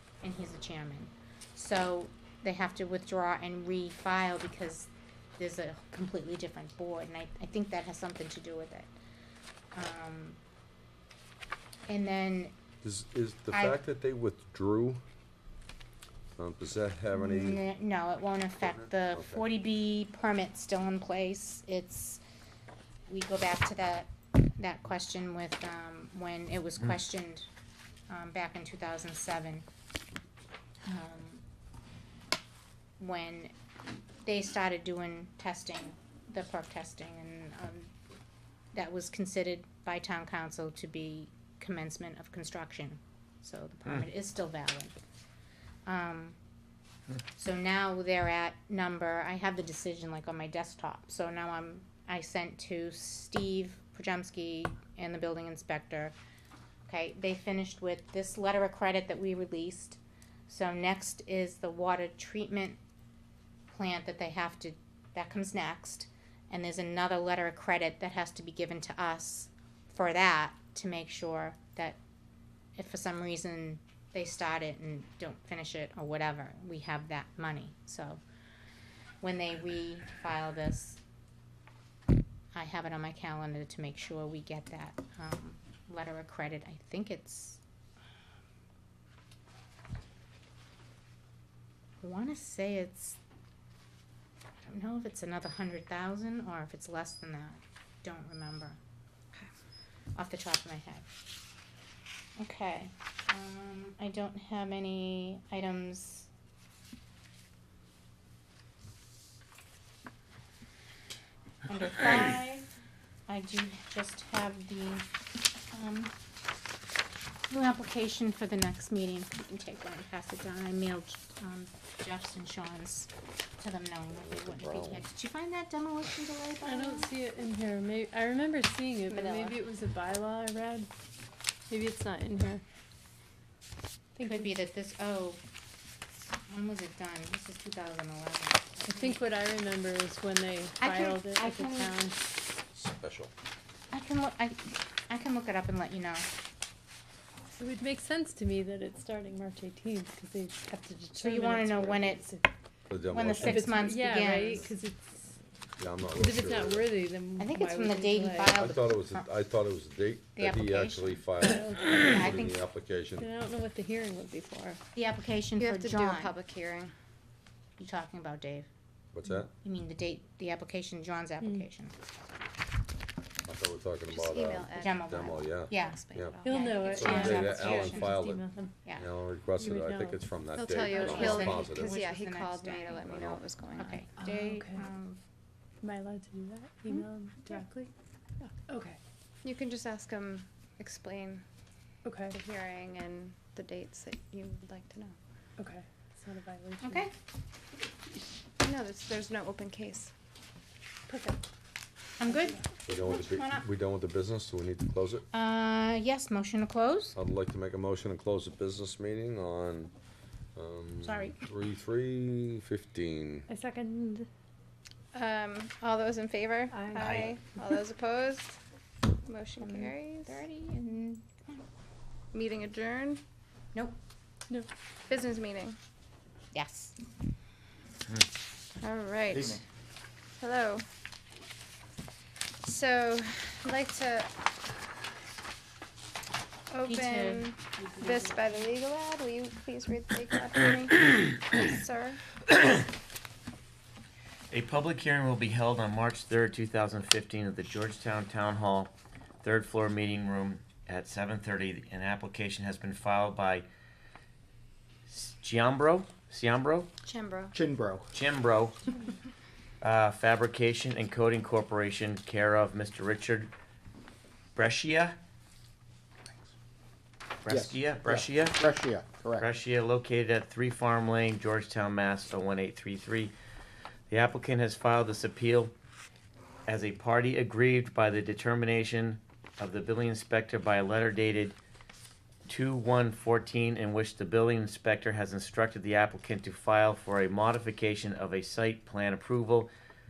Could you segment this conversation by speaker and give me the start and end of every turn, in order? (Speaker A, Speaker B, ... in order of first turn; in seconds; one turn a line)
Speaker A: 0.2-8.9
Speaker A: 9.7-10.4
Speaker A: 11.9-12.6
Speaker B: 12.8-15.0
Speaker A: 13.5-13.8
Speaker B: 16.4-17.6
Speaker A: 17.1-22.2
Speaker B: 18.6-19.5
Speaker A: 23.1-27.5
Speaker A: 28.1-29.6
Speaker A: 30.9-31.4
Speaker A: 33.0-33.5
Speaker A: 34.2-37.9
Speaker A: 38.7-44.9
Speaker A: 45.9-46.4
Speaker A: 47.3-56.1
Speaker A: 56.9-62.8
Speaker A: 63.7-72.0
Speaker A: 72.8-78.2
Speaker A: 79.2-81.0
Speaker A: 82.5-87.6
Speaker A: 92.0-93.2
Speaker A: 94.7-98.8
Speaker A: 100.2-101.1
Speaker A: 102.4-106.3
Speaker A: 111.7-112.7
Speaker A: 113.3-115.1
Speaker A: 115.7-116.1
Speaker A: 117.5-127.1
Speaker B: 124.1-125.1
Speaker C: 126.6-130.9
Speaker D: 129.1-129.6
Speaker C: 131.7-132.6
Speaker C: 134.2-134.5
Speaker A: 134.2-135.4
Speaker A: 136.5-139.2
Speaker C: 138.8-142.2
Speaker A: 140.8-141.9
Speaker B: 142.7-143.3
Speaker A: 143.9-146.3
Speaker C: 147.6-152.5
Speaker A: 151.2-152.3
Speaker B: 152.9-154.7
Speaker A: 153.1-154.7
Speaker C: 153.4-155.4
Speaker B: 155.8-156.9
Speaker C: 156.2-158.6
Speaker A: 157.4-159.3
Speaker B: 158.6-163.3
Speaker A: 160.4-161.3
Speaker C: 161.4-162.3
Speaker A: 162.0-162.6
Speaker C: 163.2-164.8
Speaker A: 164.9-166.3
Speaker D: 165.6-166.9
Speaker A: 167.8-168.7
Speaker B: 169.1-169.5
Speaker A: 169.6-172.0
Speaker C: 171.4-171.7
Speaker B: 173.4-176.4
Speaker D: 174.1-177.2
Speaker A: 174.8-178.1
Speaker C: 176.4-178.8
Speaker B: 176.9-182.0
Speaker C: 179.6-180.2
Speaker D: 180.6-184.1
Speaker C: 180.9-181.3
Speaker A: 180.9-185.2
Speaker B: 183.1-183.4
Speaker C: 184.2-184.9
Speaker C: 185.8-187.9
Speaker C: 188.4-189.0
Speaker D: 189.4-191.4
Speaker C: 192.0-192.4
Speaker D: 192.3-195.2
Speaker C: 195.6-197.1
Speaker A: 196.8-197.1
Speaker D: 198.6-200.1
Speaker C: 201.1-201.4
Speaker A: 202.2-203.7
Speaker C: 202.2-202.6
Speaker B: 202.9-205.2
Speaker A: 205.3-207.2
Speaker B: 207.2-209.9
Speaker B: 210.6-213.5
Speaker A: 211.0-211.4
Speaker C: 213.5-214.3
Speaker D: 215.1-218.6
Speaker C: 216.7-217.2
Speaker E: 217.0-217.4
Speaker D: 219.2-220.4
Speaker A: 219.6-221.6
Speaker D: 222.3-223.2
Speaker D: 225.1-225.8
Speaker A: 226.5-227.0
Speaker D: 228.8-229.6
Speaker F: 229.3-229.6
Speaker D: 230.4-230.9
Speaker D: 232.6-234.3
Speaker D: 236.7-242.2
Speaker A: 236.9-238.7
Speaker E: 244.5-253.7
Speaker E: 255.1-256.9
Speaker D: 257.0-257.5
Speaker F: 257.6-258.1
Speaker E: 258.1-258.9
Speaker E: 259.8-263.5
Speaker E: 264.6-265.2
Speaker E: 267.4-268.8
Speaker F: 267.5-269.5
Speaker E: 269.4-273.3
Speaker E: 274.1-275.7
Speaker E: 276.7-281.6
Speaker E: 282.5-289.7